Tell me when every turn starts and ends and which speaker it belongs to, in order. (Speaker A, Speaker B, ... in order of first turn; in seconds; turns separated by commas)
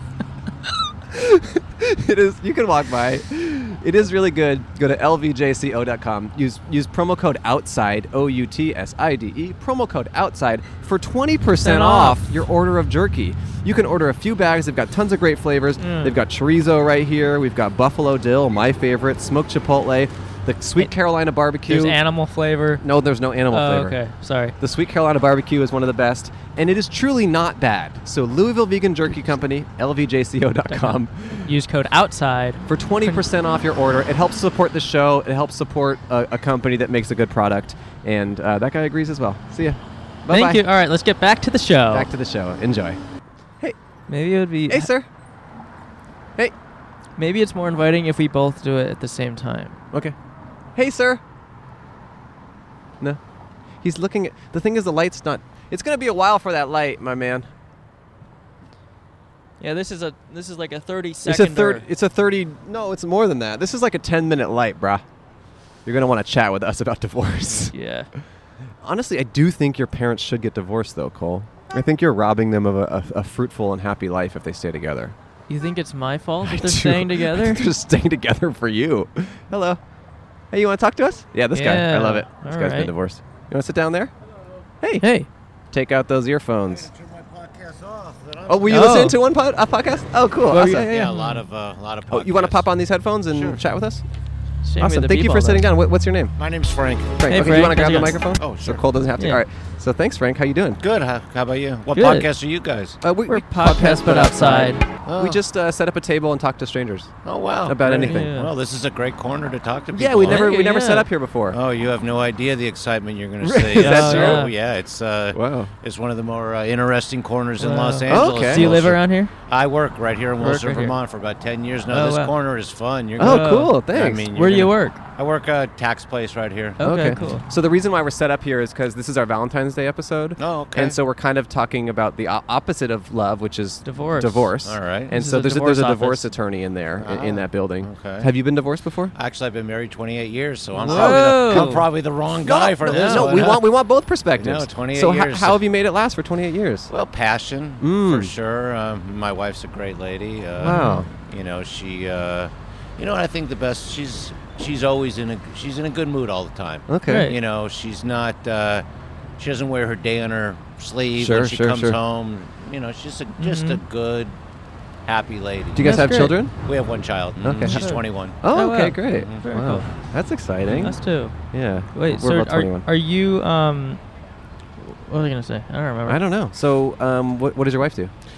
Speaker A: 1.1-22.0, Speaker B: 11.6-12.2, Speaker B: 15.8-16.2, Speaker B: 21.6-22.8, Speaker A: 22.8-24.0, Speaker B: 23.5-24.6, Speaker A: 24.6-31.5, Speaker B: 30.7-33.2, Speaker A: 32.7-40.6, Speaker B: 40.3-42.1, Speaker A: 41.9-43.0, Speaker B: 44.1-44.9, Speaker A: 44.7-45.1, Speaker B: 47.2-49.8, Speaker A: 49.9-50.1, Speaker A: 50.7-51.2, Speaker A: 53.8-57.5, Speaker B: 59.6-61.8, Speaker A: 61.2-65.0, Speaker A: 65.8-67.7, Speaker B: 67.7-68.1, Speaker A: 68.8-75.2, Speaker B: 75.5-77.6, Speaker A: 76.4-79.8, Speaker A: 80.5-84.1, Speaker B: 81.5-82.9, Speaker A: 84.8-85.1, Speaker B: 85.0-85.3, Speaker A: 85.7-86.9, Speaker C: 86.7-89.1, Speaker A: 88.5-91.1, Speaker B: 88.7-89.2, Speaker B: 90.5-91.4, Speaker C: 90.6-93.6, Speaker A: 92.1-94.0, Speaker B: 94.6-95.7, Speaker A: 94.8-96.3, Speaker C: 96.4-97.7, Speaker A: 97.2-100.8, Speaker B: 97.3-98.2, Speaker C: 98.3-98.8, Speaker B: 99.2-99.4, Speaker C: 100.8-103.0, Speaker B: 101.9-102.3, Speaker A: 103.0-107.1, Speaker B: 103.3-104.8, Speaker C: 105.0-105.4, Speaker C: 107.2-110.5, Speaker A: 107.6-108.3, Speaker B: 107.8-108.5, Speaker A: 109.9-111.6, Speaker B: 110.2-111.1, Speaker C: 111.5-127.4, Speaker A: 113.4-114.5, Speaker B: 113.8-114.5, Speaker A: 115.3-115.7, Speaker B: 117.6-119.3, Speaker A: 118.1-118.7, Speaker B: 120.4-121.0, Speaker B: 121.9-122.3, Speaker A: 123.2-124.3, Speaker B: 123.2-125.0, Speaker B: 126.8-127.4, Speaker A: 126.8-139.1, Speaker C: 130.4-131.0, Speaker B: 133.8-134.6, Speaker C: 134.6-135.1, Speaker B: 135.1-136.3, Speaker C: 137.0-138.3, Speaker C: 139.1-143.8, Speaker B: 140.8-141.9, Speaker A: 140.8-141.7, Speaker A: 142.4-146.9, Speaker B: 142.8-143.5, Speaker C: 144.3-145.6, Speaker C: 146.9-158.8, Speaker A: 147.8-148.3, Speaker A: 150.6-151.1, Speaker B: 150.6-151.0, Speaker A: 156.9-157.3, Speaker B: 157.1-157.4, Speaker C: 159.4-164.4, Speaker A: 161.2-162.0, Speaker B: 163.4-163.8, Speaker C: 165.1-166.0, Speaker A: 165.7-166.6, Speaker B: 165.8-166.4, Speaker C: 166.6-168.5, Speaker A: 167.4-167.8, Speaker B: 167.6-169.9, Speaker A: 168.4-172.9, Speaker C: 169.1-169.4, Speaker B: 170.7-171.3, Speaker B: 171.9-174.0, Speaker B: 174.8-176.2, Speaker A: 176.1-178.1